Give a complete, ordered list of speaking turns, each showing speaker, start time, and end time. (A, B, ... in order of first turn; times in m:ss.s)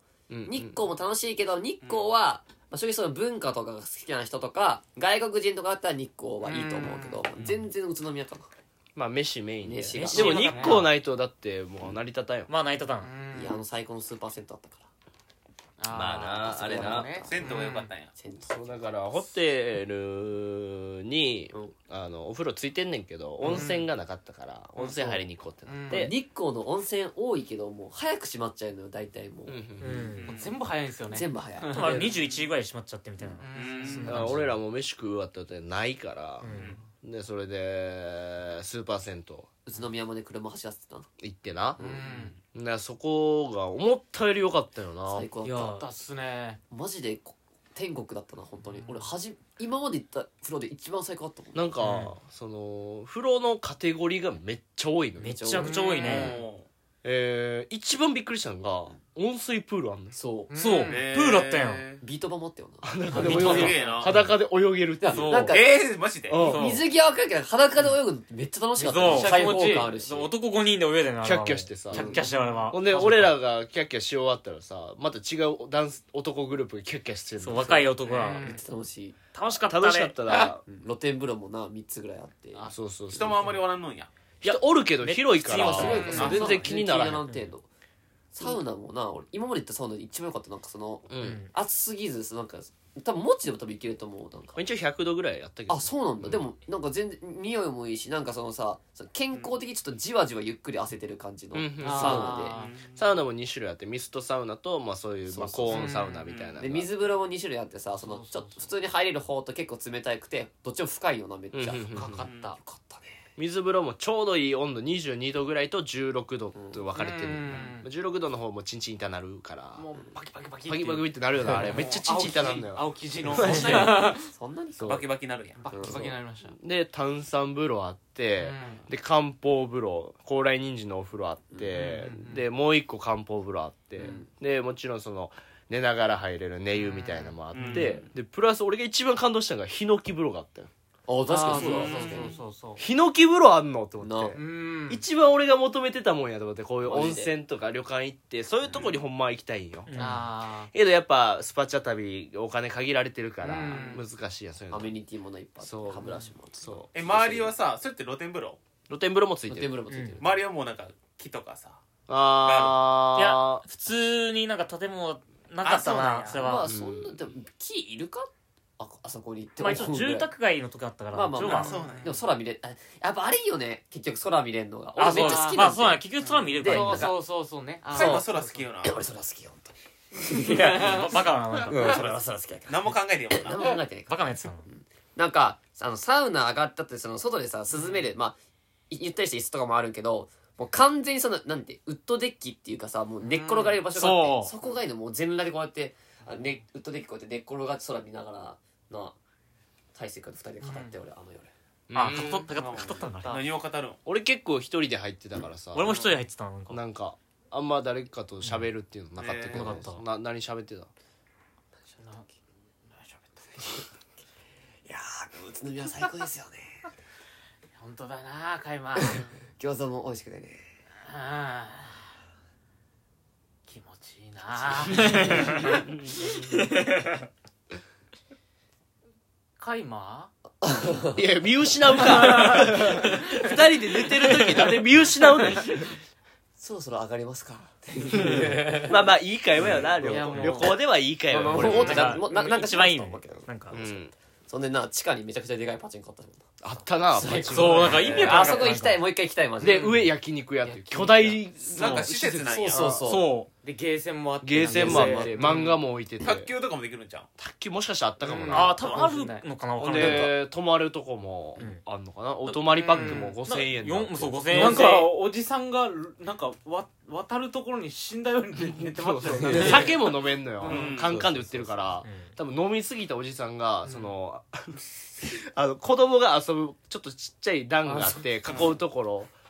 0:00.3-0:00.8 A
0:00.5-0:08.5 B
0:01.8-0:02.1 C
0:06.4-0:07.3 D
0:07.4-0:07.6 C
0:09.0-0:12.5 A
0:09.6-0:10.7 B
0:09.9-0:10.9 E
0:10.3-0:10.8 D
0:12.5-0:13.1 E
0:13.0-0:13.6 D
0:13.3-0:14.8 B
0:15.8-0:17.9 D
0:15.9-0:17.1 A
0:16.2-0:17.6 B
0:17.3-0:18.1 C
0:18.2-0:18.9 B
0:18.4-0:26.1 A
0:23.4-0:23.9 D
0:25.7-0:26.1 D
0:25.9-0:29.6 B
0:29.5-0:30.2 A
0:29.8-0:30.4 E
0:30.2-0:30.5 C
0:30.3-0:32.1 D
0:31.1-0:32.1 B
0:31.7-0:34.5 E
0:31.8-0:32.1 A
0:33.4-0:34.3 D
0:33.5-0:34.2 C
0:34.0-0:39.5 A
0:36.4-0:36.8 E
0:36.5-0:36.8 C
0:39.7-0:41.1 B
0:41.2-0:41.8 A
0:41.8-0:42.3 B
0:41.8-0:42.4 D
0:42.5-0:45.3 A
0:45.1-0:45.8 B
0:45.4-0:45.9 E
0:45.7-0:46.6 D
0:46.7-0:51.6 B
0:48.8-0:49.1 D
0:51.5-0:55.4 A
0:51.8-0:52.1 E
0:55.2-0:56.4 E
0:55.2-0:55.8 B
0:55.6-0:56.4 D
0:55.6-0:56.7 C
0:57.0-1:00.2 A
1:00.2-1:00.5 B
1:00.5-1:01.0 D
1:00.6-1:01.9 E
1:00.8-1:02.0 C
1:02.0-1:03.7 B
1:02.8-1:05.5 A
1:03.1-1:04.0 D
1:03.2-1:04.3 E
1:03.2-1:04.1 C
1:05.0-1:05.7 B
1:05.1-1:05.6 E
1:05.3-1:06.5 C
1:06.3-1:06.6 A
1:06.4-1:06.9 E
1:06.5-1:10.3 B
1:08.8-1:13.4 E
1:09.0-1:09.9 D
1:11.2-1:17.9 A
1:11.9-1:12.2 B
1:12.2-1:12.7 D
1:17.4-1:18.6 E
1:18.1-1:18.6 D
1:18.3-1:19.2 B
1:19.4-1:20.2 E
1:19.5-1:20.6 A
1:20.3-1:22.8 B
1:22.7-1:23.5 A
1:23.1-1:24.1 C
1:24.4-1:27.3 A
1:24.4-1:27.5 E
1:25.5-1:27.6 B
1:25.8-1:26.6 D
1:26.1-1:26.4 C
1:28.3-1:34.6 B
1:31.1-1:31.4 A
1:31.2-1:31.5 E
1:34.6-1:36.4 A
1:35.7-1:42.6 B
1:41.5-1:46.9 A
1:41.8-1:42.8 D
1:42.5-1:43.1 C
1:45.3-1:46.0 B
1:45.7-1:46.2 D
1:45.7-1:46.6 C
1:46.6-1:53.2 B
1:48.0-1:48.7 D
1:51.5-1:52.3 A
1:51.9-1:52.6 D
1:52.2-1:52.6 C
1:53.4-1:59.9 A
1:56.6-1:56.8 B
1:57.0-1:57.9 D
1:59.8-2:04.3 D
2:00.7-2:04.2 A
2:01.5-2:01.8 B
2:03.3-2:05.1 B
2:04.8-2:05.1 A
2:04.9-2:05.6 C
2:05.6-2:06.6 D
2:05.7-2:06.1 B
2:05.8-2:20.7 A
2:08.4-2:08.9 D
2:11.5-2:12.0 B
2:11.7-2:12.4 D
2:14.0-2:14.3 B
2:16.8-2:18.0 D
2:17.5-2:17.9 C
2:21.1-2:22.4 B
2:21.3-2:22.8 D
2:21.6-2:22.4 C
2:21.6-2:21.9 A
2:22.8-2:30.1 A
2:24.0-2:24.4 B
2:24.4-2:25.0 D
2:26.8-2:27.3 B
2:29.9-2:30.3 E
2:30.0-2:30.7 D
2:30.7-2:34.9 A
2:33.4-2:34.0 D
2:34.7-2:37.6 B
2:35.6-2:36.9 A
2:36.9-2:38.6 C
2:38.9-2:39.8 A
2:39.5-2:40.4 B
2:39.9-2:40.2 E
2:40.2-2:41.8 C
2:42.1-2:43.6 A
2:42.4-2:42.8 C
2:43.2-2:46.7 E
2:45.6-2:46.4 C
2:46.3-2:50.3 B
2:46.7-2:47.2 A
2:49.6-2:51.9 E
2:51.1-2:56.0 B
2:51.4-2:52.2 C
2:51.6-2:52.1 D
2:55.0-2:57.1 E
2:55.0-2:55.7 D
2:56.2-2:56.6 C
2:56.6-2:57.2 B
2:56.6-2:58.6 D
2:57.9-2:59.0 C
2:57.9-2:58.3 B
2:58.8-3:08.4 B
3:00.5-3:00.8 D
3:00.6-3:02.2 E
3:02.7-3:03.8 C
3:04.1-3:04.6 E
3:07.7-3:08.0 D
3:08.9-3:19.2 B
3:13.2-3:13.8 D
3:13.9-3:14.5 E
3:20.0-3:21.5 B
3:20.6-3:20.9 D
3:21.9-3:22.5 A
3:21.9-3:23.4 E
3:22.2-3:24.0 C
3:24.1-3:26.0 A
3:25.7-3:26.8 E
3:26.7-3:30.9 A
3:29.2-3:29.7 C
3:29.5-3:30.0 E
3:32.0-3:32.3 D
3:32.9-3:33.8 D
3:34.9-3:36.8 B
3:37.8-3:39.3 D
3:39.0-3:40.6 B
3:41.0-3:42.1 D
3:43.7-3:45.9 D
3:45.0-3:45.6 E
3:46.5-3:47.2 E
3:49.6-3:50.3 D
3:50.6-3:51.2 B
3:51.2-3:55.9 A
3:52.0-3:53.5 D
3:52.5-3:53.3 E
3:54.2-3:54.7 E
3:56.6-3:59.1 B
3:58.1-4:02.2 A
4:00.0-4:00.8 D
4:00.0-4:00.6 B
4:01.3-4:10.1 B
4:01.5-4:03.8 E
4:03.7-4:04.1 A
4:06.6-4:08.8 A
4:07.3-4:09.1 E
4:09.6-4:13.1 A
4:10.6-4:11.4 B
4:11.6-4:13.0 C
4:11.8-4:12.1 E
4:12.5-4:13.3 B
4:13.0-4:13.5 E
4:13.6-4:15.7 D
4:14.4-4:16.5 A
4:14.6-4:15.7 B
4:16.2-4:17.3 C
4:17.4-4:18.8 A
4:18.3-4:19.5 D
4:18.5-4:20.3 E
4:18.8-4:19.1 C
4:19.8-4:24.9 A
4:19.9-4:20.3 B
4:22.6-4:23.4 D
4:22.9-4:25.1 E
4:24.5-4:31.0 D
4:28.7-4:39.3 A
4:30.6-4:31.3 C
4:32.0-4:32.3 E
4:37.9-4:38.2 D
4:38.5-4:38.8 C